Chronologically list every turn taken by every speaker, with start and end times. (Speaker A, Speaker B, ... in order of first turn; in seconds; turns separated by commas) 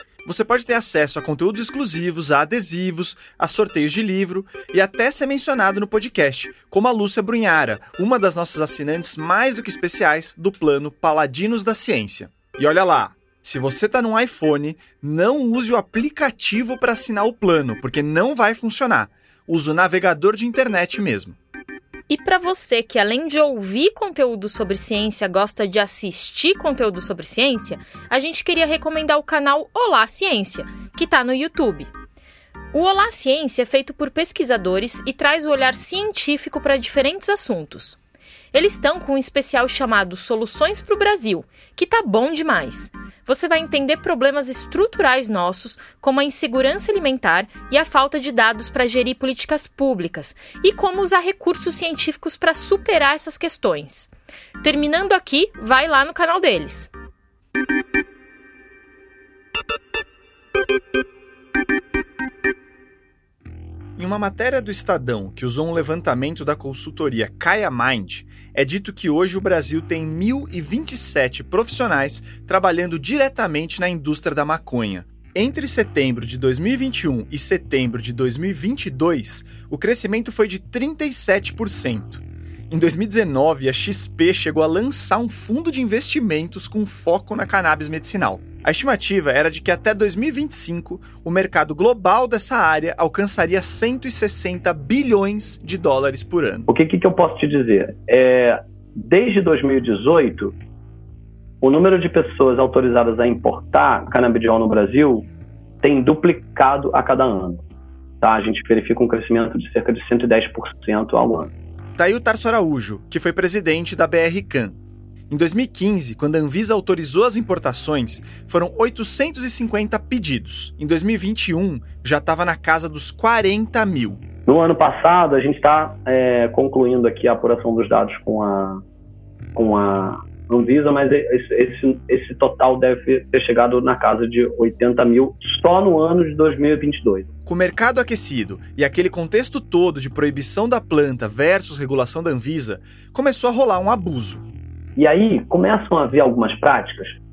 Speaker A: 0.2-21.4, Speaker B: 22.1-31.9, Speaker B: 32.7-38.0, Speaker B: 38.5-54.1, Speaker B: 54.6-56.9, Speaker A: 64.0-96.7, Speaker C: 96.7-100.5, Speaker C: 101.6-105.3, Speaker C: 105.8-107.6, Speaker C: 108.2-111.5, Speaker A: 112.0-114.8, Speaker A: 115.3-124.2, Speaker C: 124.5-128.8, Speaker C: 129.5-137.3, Speaker A: 137.4-144.4, Speaker C: 144.9-147.2